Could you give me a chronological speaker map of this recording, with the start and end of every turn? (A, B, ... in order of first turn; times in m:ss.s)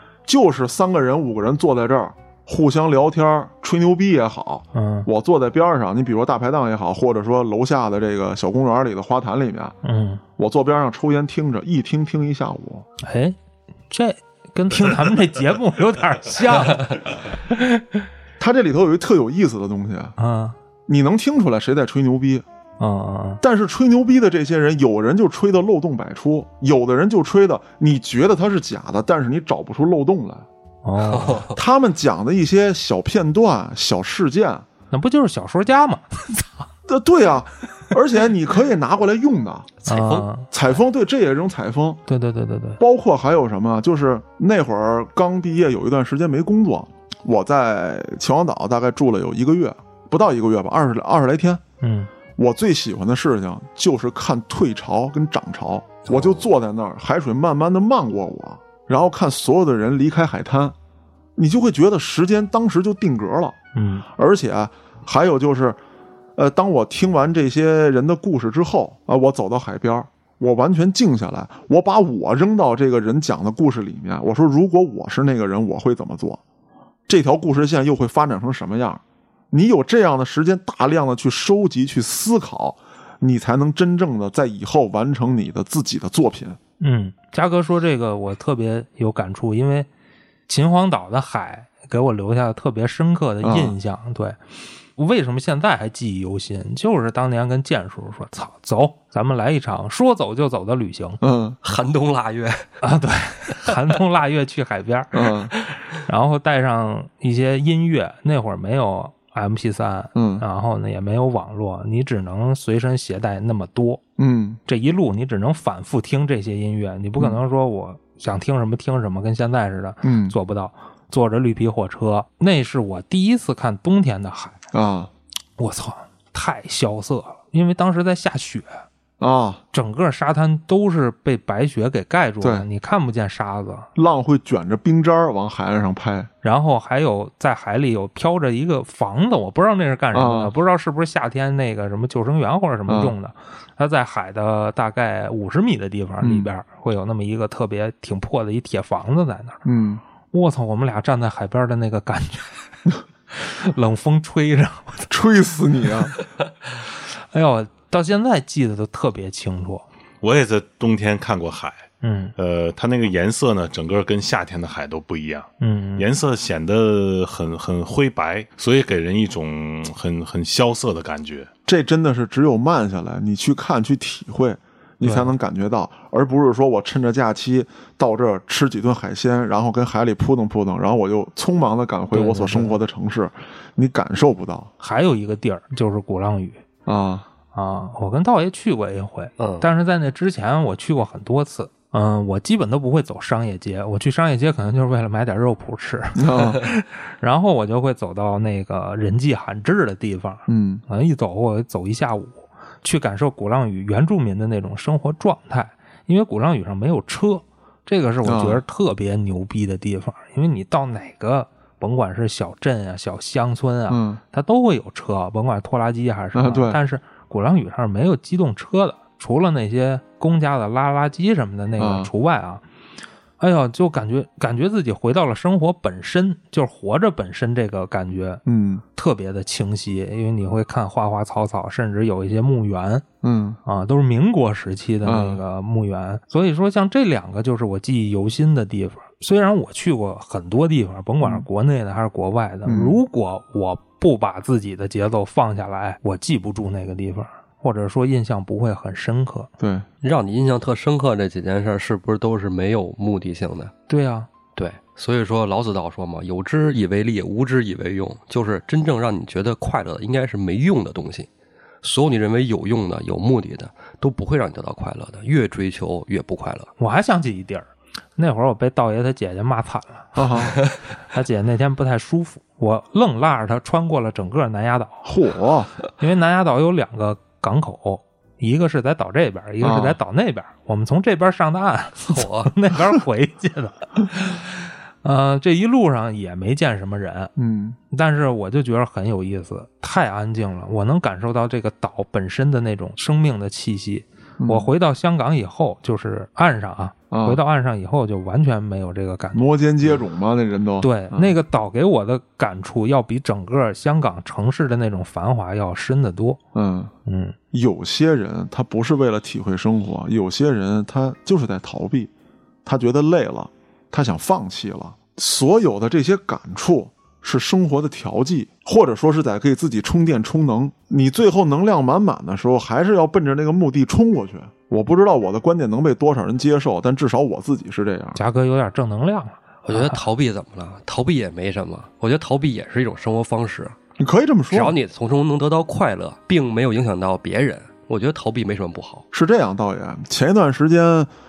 0:00.3-0:09.8 A
0:04.7-0:05.1 B
0:09.8-0:10.2 B
0:10.4-0:12.9 A
0:13.0-0:13.4 B
0:13.9-0:17.8 B
0:18.4-0:20.2 A
0:20.2-0:20.6 B
0:20.9-0:22.4 A
0:22.8-0:23.4 B
0:23.4-0:30.5 A
0:30.8-0:31.5 B
0:31.0-0:31.6 C
0:31.5-0:34.6 A
0:34.9-0:36.7 B
0:36.9-0:39.7 A
0:39.8-0:40.3 C
0:39.9-0:40.5 B
0:40.5-0:42.0 A
0:42.1-0:42.8 B
0:42.8-0:51.6 A
0:51.8-0:52.1 B
0:52.4-1:00.8 A
1:01.4-1:03.6 A
1:03.7-1:04.1 B
1:04.2-1:05.8 A
1:06.4-1:16.4 A
1:17.1-1:19.0 A
1:19.5-1:26.6 A
1:26.8-1:29.9 B
1:30.5-1:34.4 B
1:33.4-1:33.8 A
1:35.0-1:41.2 B
1:41.2-1:41.6 A
1:41.6-1:42.7 C
1:42.8-1:54.0 B
1:45.1-1:45.5 A
1:50.2-1:50.4 A
1:54.2-1:54.6 A
1:54.7-2:04.6 B
2:00.0-2:00.4 A
2:04.7-2:05.1 A
2:05.6-2:08.8 B
2:09.2-2:09.6 A
2:09.7-2:13.9 B
2:14.0-2:16.3 A
2:16.4-2:29.6 B
2:20.1-2:20.5 A
2:22.9-2:23.1 A
2:26.2-2:26.5 A
2:29.6-2:30.0 A
2:30.3-2:32.6 B
2:33.3-2:35.1 B
2:35.1-2:36.2 A
2:37.3-2:39.8 B
2:40.2-2:51.5 D
2:42.0-2:42.4 B
2:45.6-2:46.1 B
2:51.7-3:04.7 A
2:55.0-2:55.3 B
3:02.2-3:02.7 C
3:04.8-3:06.6 B
3:06.9-3:07.3 A
3:07.5-3:42.6 B
3:09.4-3:09.6 C
3:16.2-3:16.6 A
3:20.5-3:20.8 A
3:28.2-3:28.6 A
3:33.9-3:34.2 A
3:36.3-3:36.8 A
3:41.8-3:42.1 A
3:43.4-3:48.4 B
3:48.5-3:48.8 A
3:49.0-3:53.1 B
3:53.2-3:53.6 A
3:53.6-4:09.5 B
3:55.0-3:55.4 A
4:02.7-4:03.0 A
4:09.6-4:09.8 A
4:10.0-4:13.7 C
4:13.9-4:14.3 B
4:14.6-4:21.3 C
4:21.8-4:26.7 C
4:26.8-4:30.6 B
4:30.2-4:30.6 A
4:31.1-4:35.1 B
4:35.0-4:35.7 A
4:36.0-4:47.3 B
4:39.6-4:40.0 A
4:42.1-4:42.5 C
4:47.4-4:47.8 A
4:47.9-4:59.5 B
4:54.4-4:54.7 A
4:57.1-4:57.4 A
4:59.4-5:01.4 A
5:00.8-5:06.4 B
5:06.5-5:06.9 A
5:07.1-5:07.4 B
5:07.5-5:12.1 A
5:12.6-5:28.2 A
5:28.2-5:30.0 B
5:29.6-5:33.8 C
5:34.0-5:34.8 A
5:34.5-5:39.0 C
5:39.1-5:41.1 A